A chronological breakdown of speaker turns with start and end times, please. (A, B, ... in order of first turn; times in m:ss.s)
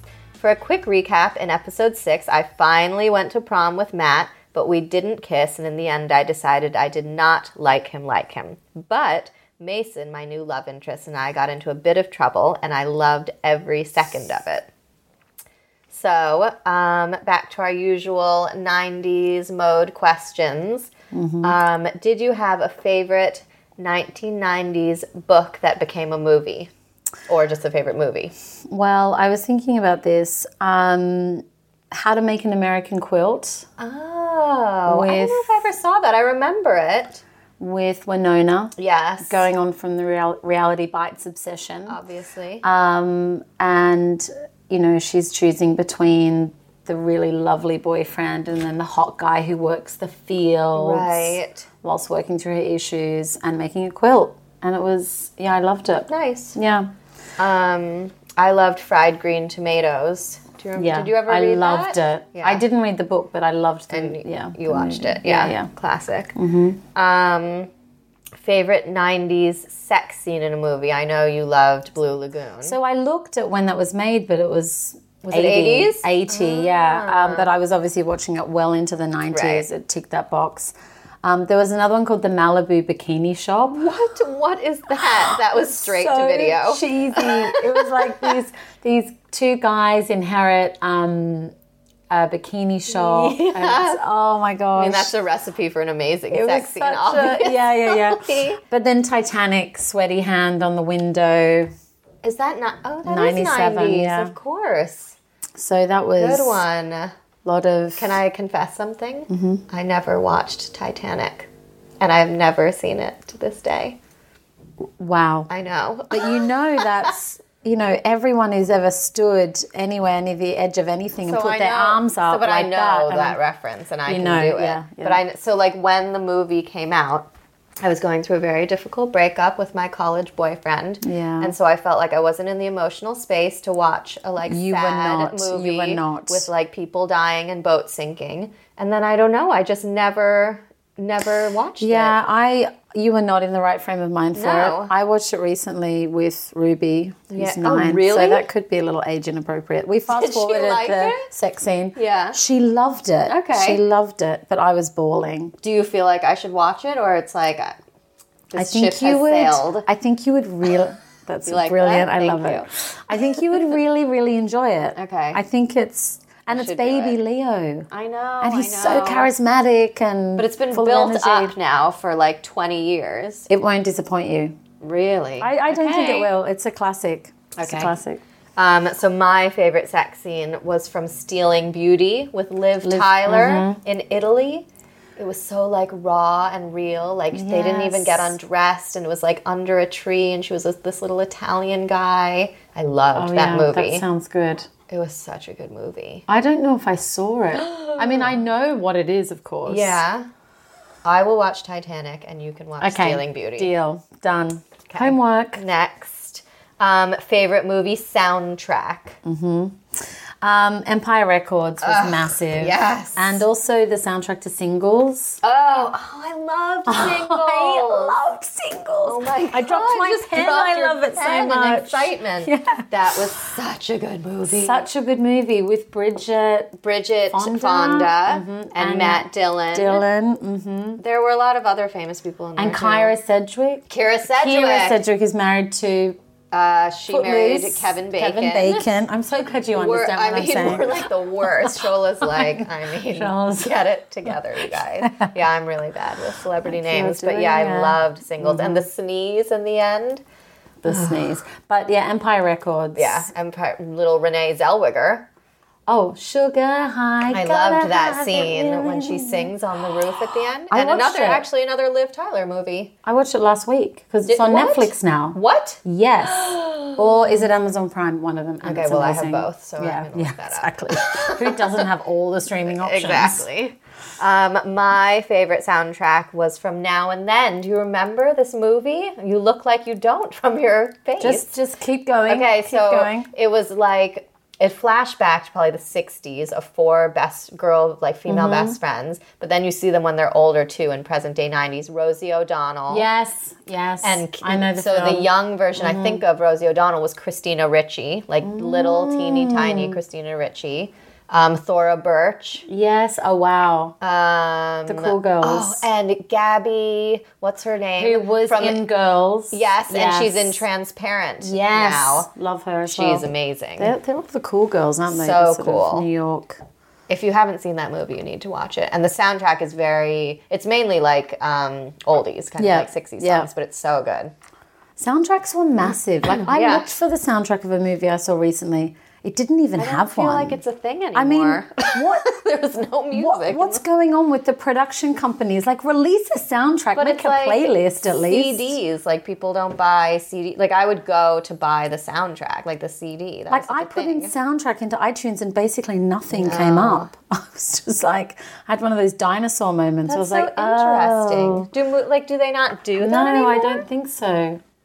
0:00.4-0:14.7 A
0:15.9-0:20.9 A
0:21.1-0:21.5 B
0:21.4-0:26.7 A
0:27.3-0:28.3 A
0:28.7-0:33.6 B
0:33.8-0:37.2 A
0:34.9-0:35.6 B
0:37.6-0:42.0 B
0:38.8-0:39.5 A
0:41.9-0:42.6 A
0:42.6-0:56.9 B
0:50.7-0:51.7 A
0:56.1-0:56.6 A
0:57.4-1:02.6 A
1:00.8-1:05.7 B
1:03.9-1:06.4 A
1:06.3-1:06.8 B
1:06.9-1:07.7 A
1:08.4-1:12.8 A
1:12.6-1:23.8 B
1:15.2-1:17.5 A
1:19.3-1:19.7 A
1:23.7-1:28.4 A
1:25.2-1:31.5 B
1:32.1-1:35.1 B
1:32.9-1:34.0 A
1:34.8-1:38.6 A
1:36.3-1:41.7 B
1:42.2-1:45.2 A
1:43.0-1:44.4 B
1:45.6-1:46.6 B
1:46.2-1:47.1 A
1:47.4-1:48.1 B
1:48.0-1:51.5 A
1:49.3-1:49.6 B
1:52.0-1:54.0 A
1:55.0-1:55.5 B
1:55.5-1:57.1 A
1:56.1-2:03.4 B
2:01.2-2:07.3 A
2:04.0-2:05.2 B
2:07.8-2:22.2 A
2:11.0-2:11.5 B
2:14.4-2:16.5 B
2:21.8-2:35.5 B
2:24.3-2:24.9 A
2:27.3-2:28.5 A
2:30.1-2:31.3 A
2:31.9-2:32.4 A
2:33.2-2:33.8 A
2:35.6-2:37.8 A
2:38.5-2:39.9 A
2:38.6-2:47.9 B
2:41.4-2:43.7 A
2:44.9-2:45.4 A
2:46.5-2:47.2 A
2:47.9-2:49.3 A
2:48.4-2:51.5 B
2:50.4-2:53.5 A
2:53.5-2:54.6 B
2:54.8-2:56.3 A
2:55.4-2:58.2 B
2:57.6-2:57.9 A
2:58.6-3:04.6 A
3:02.8-3:03.8 B
3:05.2-3:14.0 A
3:07.3-3:08.4 B
3:13.1-3:14.7 B
3:14.9-3:16.2 A
3:16.3-3:20.0 B
3:17.5-3:18.4 A
3:19.6-3:20.3 A
3:21.0-3:23.7 A
3:22.8-3:25.6 B
3:24.9-3:29.2 A
3:29.2-3:29.8 B
3:30.4-3:35.4 B
3:31.8-3:33.4 A
3:35.4-3:38.2 A
3:36.8-3:42.9 B
3:39.0-3:44.8 A
3:44.5-3:46.8 B
3:46.8-3:50.0 A
3:47.3-3:51.0 B
3:51.0-3:53.2 A
3:52.6-3:56.2 B
3:53.9-3:55.0 A
3:56.5-3:59.0 A
3:57.1-4:03.8 B
3:59.7-4:10.2 A
4:05.0-4:05.3 B
4:06.6-4:08.8 B
4:10.8-4:13.3 B
4:10.8-4:11.4 A
4:13.0-4:15.3 A
4:15.9-4:19.5 B
4:17.3-4:22.9 A
4:20.7-4:21.4 B
4:23.0-4:33.4 B
4:24.3-4:27.5 A
4:28.6-4:31.8 A
4:32.7-4:41.5 A
4:41.2-4:43.3 B
4:42.3-4:53.0 A
4:48.3-4:48.8 B
4:52.9-4:56.2 B
4:54.0-5:02.6 A
4:58.4-5:00.0 B
5:02.7-5:04.0 B
5:04.0-5:08.8 A
5:04.8-5:05.9 B
5:08.0-5:10.6 B
5:09.5-5:12.3 A
5:11.4-5:16.6 B
5:12.8-5:13.9 A
5:15.1-5:16.1 A
5:17.1-5:24.3 A
5:22.6-5:23.5 B
5:25.0-5:30.6 B
5:26.2-5:26.9 A
5:29.8-5:33.8 A
5:31.1-5:32.4 B
5:33.1-5:38.8 B
5:36.9-5:44.3 A
5:43.5-5:51.7 B
5:46.3-5:47.1 A
5:50.1-5:53.8 A
5:53.0-5:54.6 B